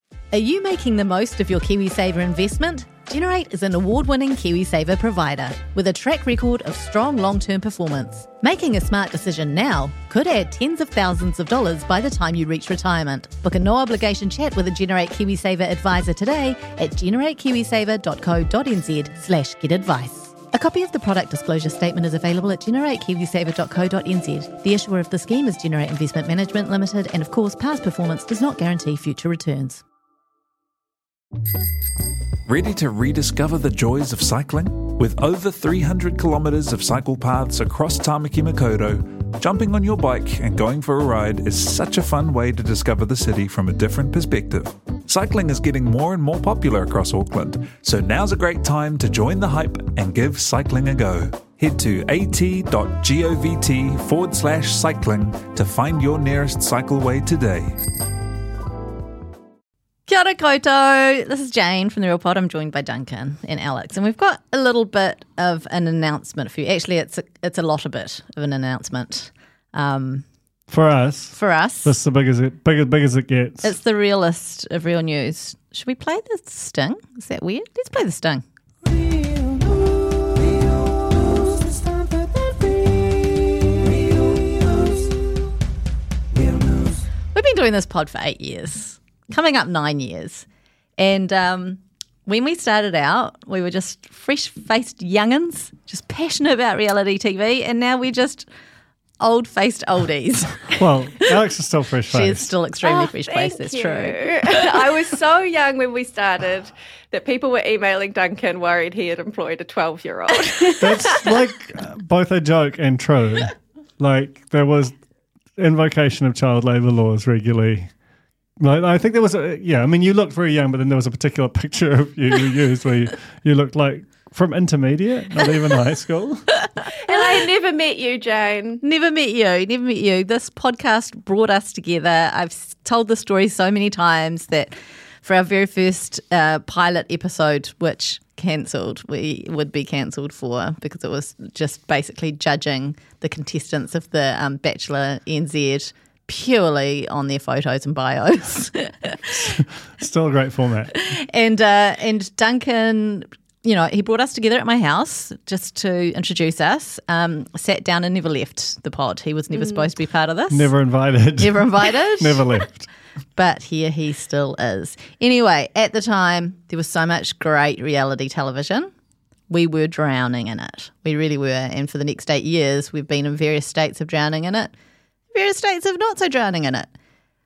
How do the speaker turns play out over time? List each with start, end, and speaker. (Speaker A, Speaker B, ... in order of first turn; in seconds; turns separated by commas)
Speaker A: 0.3-29.8, Speaker B: 32.5-57.8, Speaker A: 60.1-70.2, Speaker C: 70.7-73.7, Speaker A: 71.3-72.0, Speaker A: 73.6-78.4, Speaker A: 87.3-90.5, Speaker A: 91.0-98.5, Speaker A: 99.2-100.8, Speaker C: 100.8-102.5, Speaker A: 102.1-104.9, Speaker D: 102.8-111.3, Speaker C: 110.8-114.9, Speaker C: 115.6-117.9, Speaker C: 118.6-126.6, Speaker D: 127.0-128.8, Speaker A: 128.8-134.7, Speaker A: 135.2-149.2, Speaker C: 149.3-151.0, Speaker A: 150.9-160.7, Speaker D: 159.5-159.8, Speaker C: 160.5-162.9, Speaker A: 161.4-162.4, Speaker A: 163.3-168.9, Speaker A: 169.5-174.7, Speaker A: 175.3-176.9